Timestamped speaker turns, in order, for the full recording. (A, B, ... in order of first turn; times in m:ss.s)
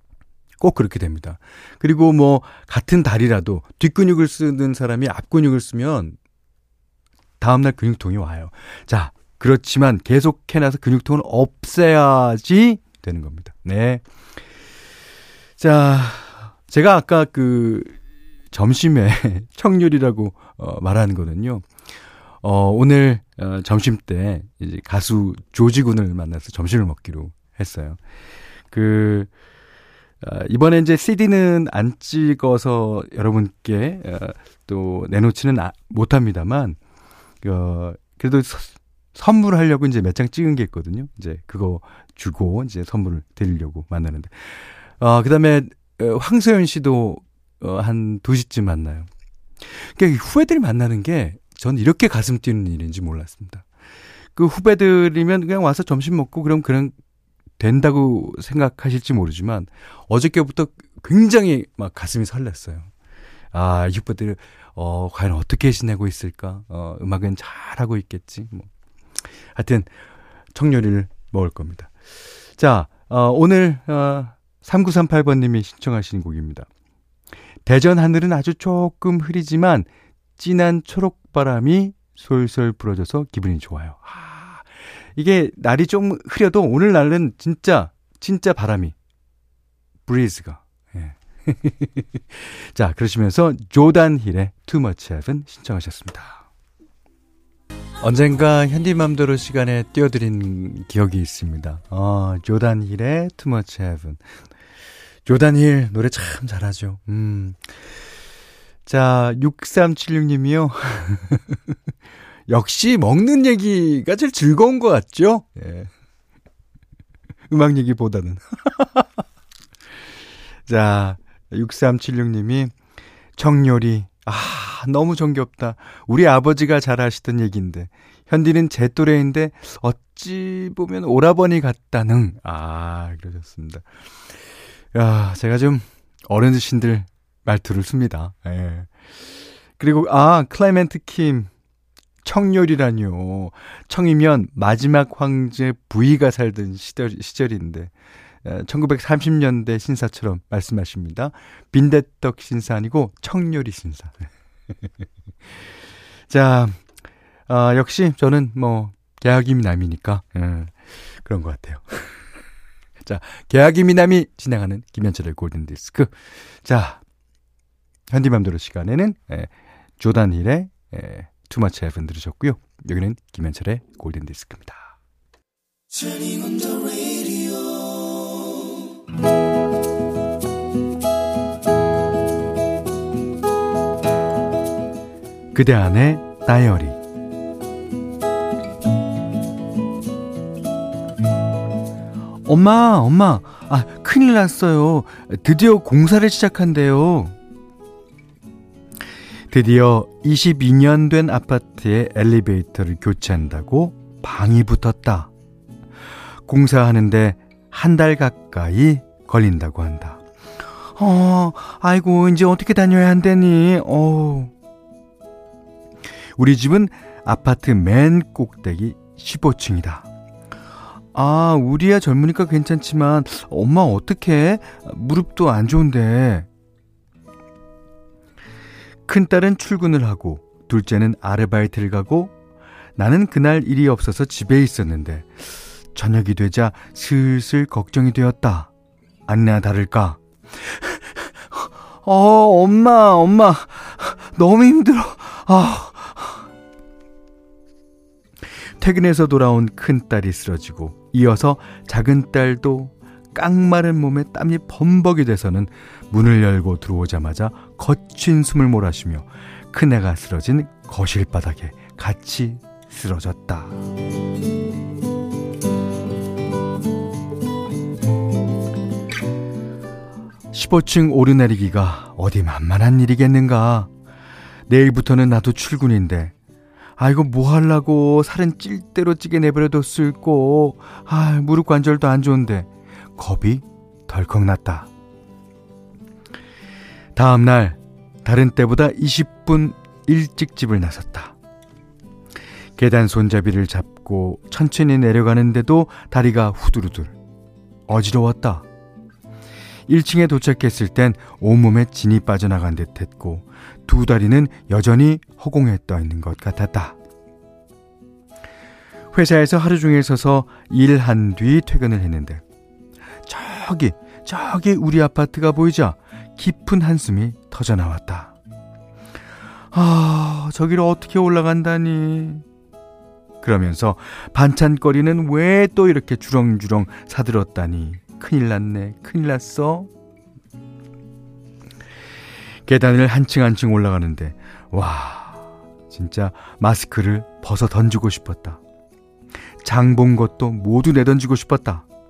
0:00.6-0:06.2 A
0:07.4-0:14.0 A
0:15.6-0:18.0 A
0:18.5-0:21.7 A
0:22.4-0:28.0 A
0:28.7-0:29.3 A
0:30.2-0:36.8 A
0:37.4-0:49.1 A
0:49.7-0:53.6 A
0:54.4-0:56.9 A
0:57.6-1:02.9 A
1:03.5-1:08.7 A
1:09.5-1:09.9 A
1:10.5-1:11.9 A
1:12.6-1:16.7 A
1:17.6-1:28.9 A
1:30.0-1:36.4 A
1:38.0-1:44.2 A
1:45.2-1:47.7 A
1:48.8-1:51.7 A
1:52.5-1:55.9 A
1:57.5-1:59.2 A
2:00.6-2:02.7 A
2:03.4-2:13.9 A
2:14.9-2:18.9 A
2:19.8-2:21.5 A
2:22.2-2:27.9 A
2:28.4-2:34.3 A
2:36.3-2:36.8 A
2:37.5-2:42.1 A
2:43.0-2:47.0 A
2:48.1-2:54.9 A
3:05.5-3:07.0 A
3:12.4-3:17.4 A
3:19.5-3:25.3 A
3:26.4-3:30.2 A
3:31.0-3:34.5 A
3:36.4-3:40.1 A
3:41.1-3:46.5 A
3:49.1-3:52.3 A
3:53.0-3:55.3 A
3:55.9-3:58.7 A
3:59.3-4:06.4 A
4:08.8-4:23.8 A
4:30.5-4:33.9 A
4:34.7-4:36.3 A
4:37.0-4:44.9 A
4:47.1-4:51.4 A
4:52.8-4:57.2 A
4:57.9-4:58.6 A
4:59.9-5:07.0 A
5:09.1-5:12.4 A
5:13.2-5:18.3 A
5:19.7-5:22.4 A
5:23.4-5:29.9 A
5:32.6-5:38.6 A
5:39.6-5:41.8 A